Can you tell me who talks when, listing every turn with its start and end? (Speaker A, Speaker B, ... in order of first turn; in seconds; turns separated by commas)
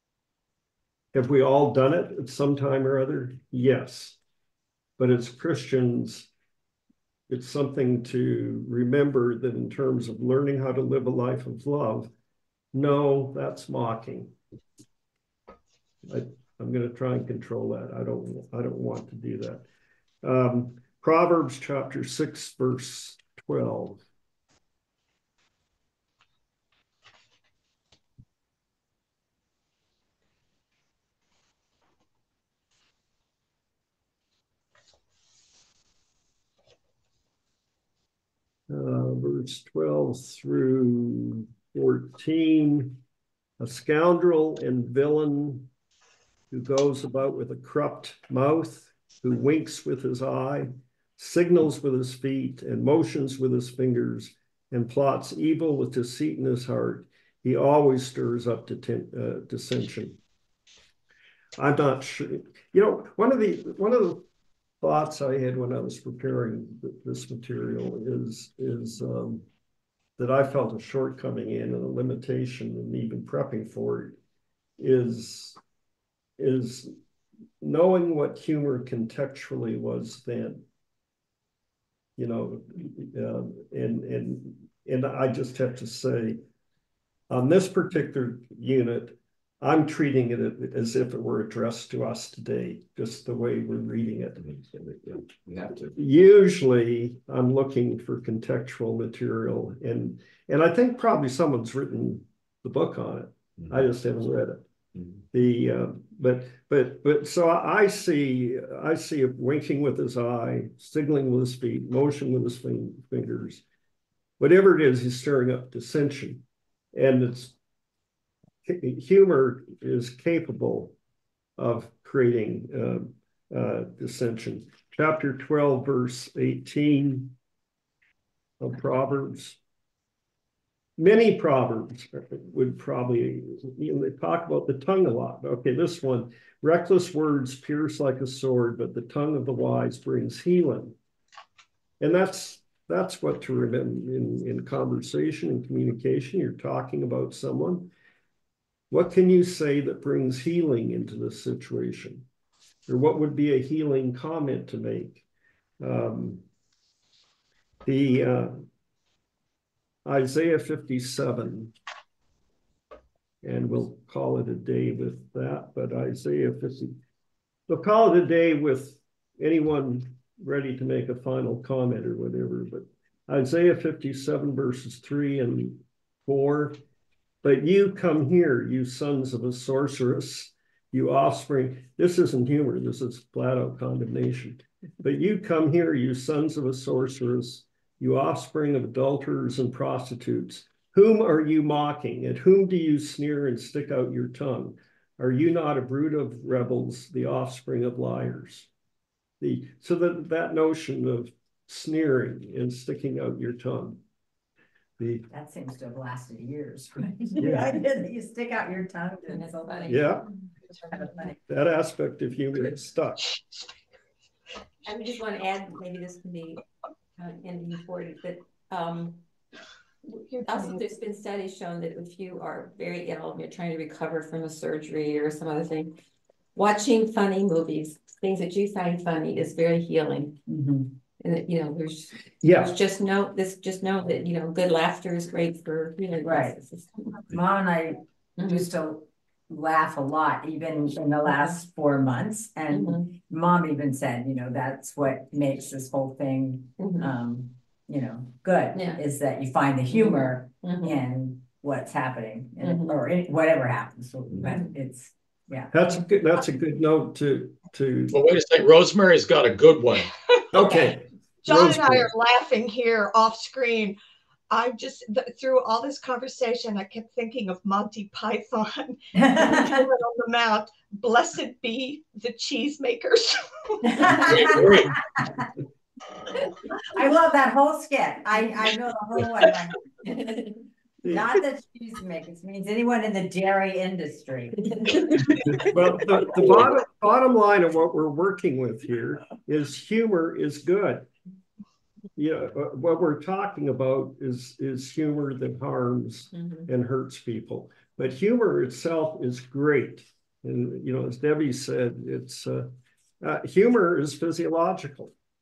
Speaker A: 1.1-4.2, Speaker A: 5.0-6.3, Speaker A: 7.3-12.1, Speaker A: 12.7-14.3, Speaker A: 16.1-19.6, Speaker A: 20.2-24.0, Speaker A: 38.7-43.0, Speaker A: 43.6-45.7, Speaker A: 46.5-60.2, Speaker A: 61.6-64.2, Speaker A: 64.8-69.5, Speaker A: 70.2-74.2, Speaker A: 74.8-75.6, Speaker A: 76.4-76.9, Speaker A: 77.6-80.6, Speaker A: 82.2-86.4, Speaker A: 87.3-94.4, Speaker B: 94.4-96.0, Speaker A: 96.0-104.6, Speaker B: 103.6-103.8, Speaker B: 105.0-105.2, Speaker A: 105.3-113.6, Speaker A: 114.4-116.4, Speaker A: 116.9-117.6, Speaker A: 118.6-121.0, Speaker A: 121.6-127.3, Speaker A: 128.6-129.6, Speaker A: 131.0-141.0, Speaker A: 142.0-147.9, Speaker A: 148.9-152.3, Speaker A: 152.9-155.2, Speaker A: 155.8-156.4, Speaker A: 157.8-158.6, Speaker A: 160.1-161.7, Speaker A: 163.4-167.0, Speaker A: 167.7-176.8, Speaker A: 177.4-198.7, Speaker A: 199.4-204.0, Speaker A: 205.0-205.3, Speaker C: 205.3-210.2, Speaker A: 207.4-207.7, Speaker D: 209.3-210.2, Speaker A: 209.9-210.3, Speaker C: 210.9-211.3, Speaker A: 211.5-213.3, Speaker D: 214.8-216.7, Speaker D: 217.2-219.2, Speaker E: 220.1-220.8, Speaker D: 220.4-225.9, Speaker D: 226.6-230.4, Speaker C: 230.5-230.9, Speaker D: 231.2-237.2, Speaker A: 232.4-232.7, Speaker C: 236.2-236.6, Speaker C: 237.1-255.7, Speaker D: 238.4-238.7, Speaker D: 242.7-243.1, Speaker D: 246.8-247.1, Speaker D: 248.8-249.0, Speaker D: 249.9-251.0, Speaker D: 252.6-253.0, Speaker A: 255.7-258.1, Speaker F: 258.1-260.1, Speaker A: 260.5-262.1, Speaker E: 261.4-264.0, Speaker E: 264.5-274.8, Speaker C: 269.1-269.8, Speaker C: 273.9-274.8, Speaker F: 274.1-275.0, Speaker C: 276.9-280.4, Speaker D: 280.2-280.5, Speaker A: 281.0-281.3, Speaker C: 281.1-284.7, Speaker D: 284.8-285.1, Speaker A: 285.6-291.1, Speaker A: 292.2-305.1, Speaker D: 296.4-296.7